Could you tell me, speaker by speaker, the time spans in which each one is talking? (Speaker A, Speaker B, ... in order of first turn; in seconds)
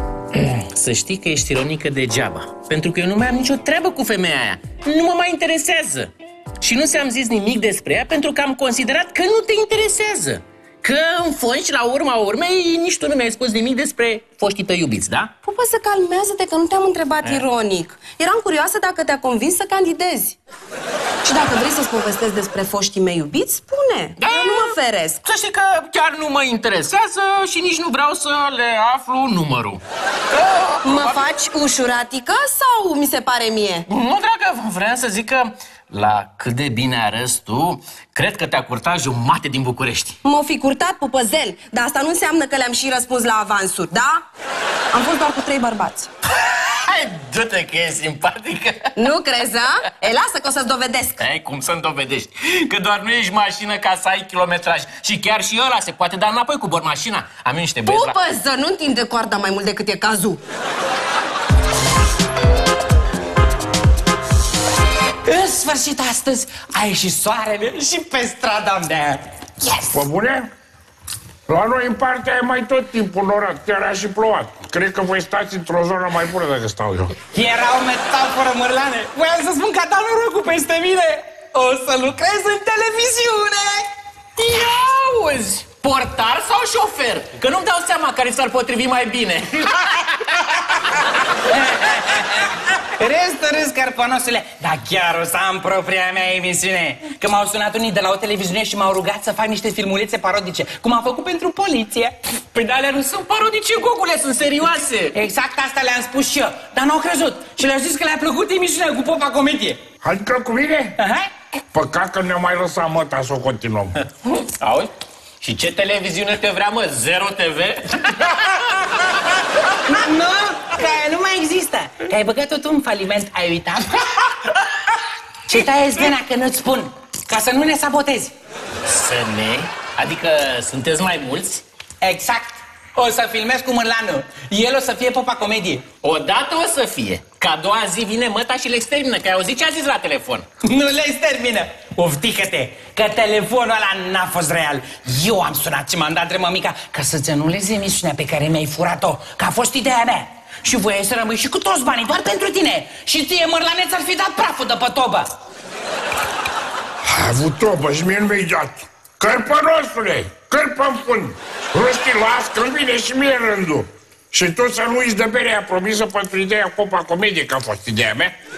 Speaker A: 0.3-15.3, 24.2-29.8, 30.3-31.2, 33.9-40.2, 46.6-49.1, 51.2-58.1, 84.4-89.9, 103.2-105.2, 114.5-118.5, 128.8-131.6, 136.0-140.5
Speaker B: 15.4-20.4, 21.2-25.2, 30.8-33.9, 40.2-44.2, 44.9-46.1, 49.0-51.2, 57.8-60.4
Speaker C: 65.2-70.0, 77.3-83.9, 91.7-92.2, 93.0-103.2, 105.1-109.8, 111.0-111.3, 119.9-124.0, 125.5-128.3, 132.0-135.8, 140.6-155.3
Speaker D: 69.9-70.5, 71.5-77.1, 110.0-111.0, 111.7-113.9, 157.0-168.3